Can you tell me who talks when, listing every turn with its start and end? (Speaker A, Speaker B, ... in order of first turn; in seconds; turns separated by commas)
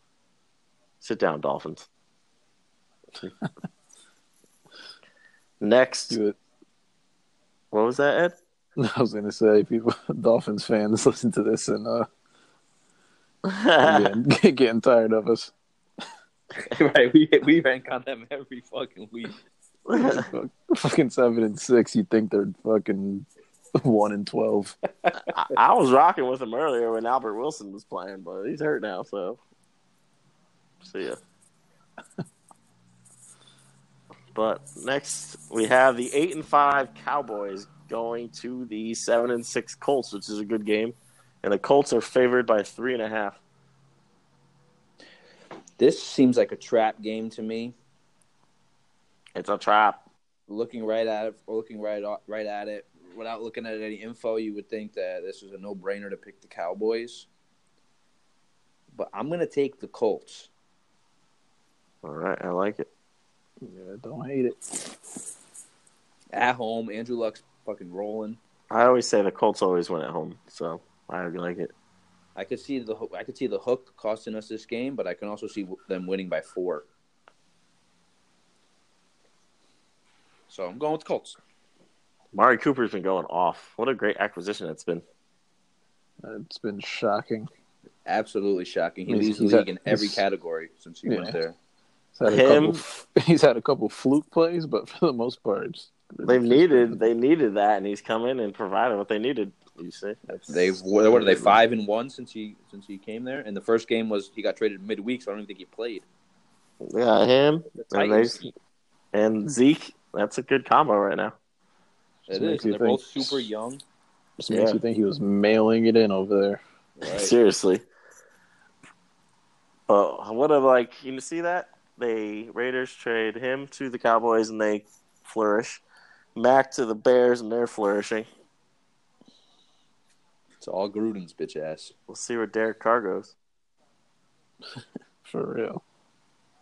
Speaker A: 1.0-1.9, Speaker A: 5.6-6.2, Speaker B: 6.1-6.4, Speaker A: 7.7-8.4, Speaker B: 8.8-12.1, Speaker A: 13.4-14.2, Speaker B: 13.8-15.5, Speaker C: 16.6-19.4, Speaker A: 19.9-20.3, Speaker B: 20.0-24.8, Speaker A: 25.3-29.4, Speaker A: 30.8-31.2, Speaker A: 34.4-43.4, Speaker C: 45.8-47.8, Speaker A: 49.4-50.0, Speaker C: 50.5-57.3, Speaker C: 58.9-60.5, Speaker A: 62.0-62.9, Speaker B: 63.6-65.0, Speaker C: 66.3-68.4, Speaker A: 68.7-71.7, Speaker C: 72.4-76.9, Speaker C: 80.5-81.4, Speaker A: 82.3-85.0, Speaker B: 86.2-87.5, Speaker C: 88.1-91.6, Speaker B: 89.1-90.2, Speaker B: 91.1-91.4, Speaker B: 92.2-97.1, Speaker A: 92.2-92.8, Speaker A: 96.2-100.3, Speaker C: 100.3-106.1, Speaker A: 101.1-101.5, Speaker A: 106.8-108.5, Speaker C: 107.8-108.4, Speaker A: 109.1-111.3, Speaker C: 112.3-113.8, Speaker B: 112.3-113.5, Speaker B: 114.4-116.6, Speaker A: 114.5-114.8, Speaker C: 117.0-117.3, Speaker A: 117.0-117.8, Speaker A: 119.9-125.8, Speaker A: 126.4-128.3, Speaker C: 130.6-131.9, Speaker A: 132.1-133.3, Speaker B: 135.2-135.8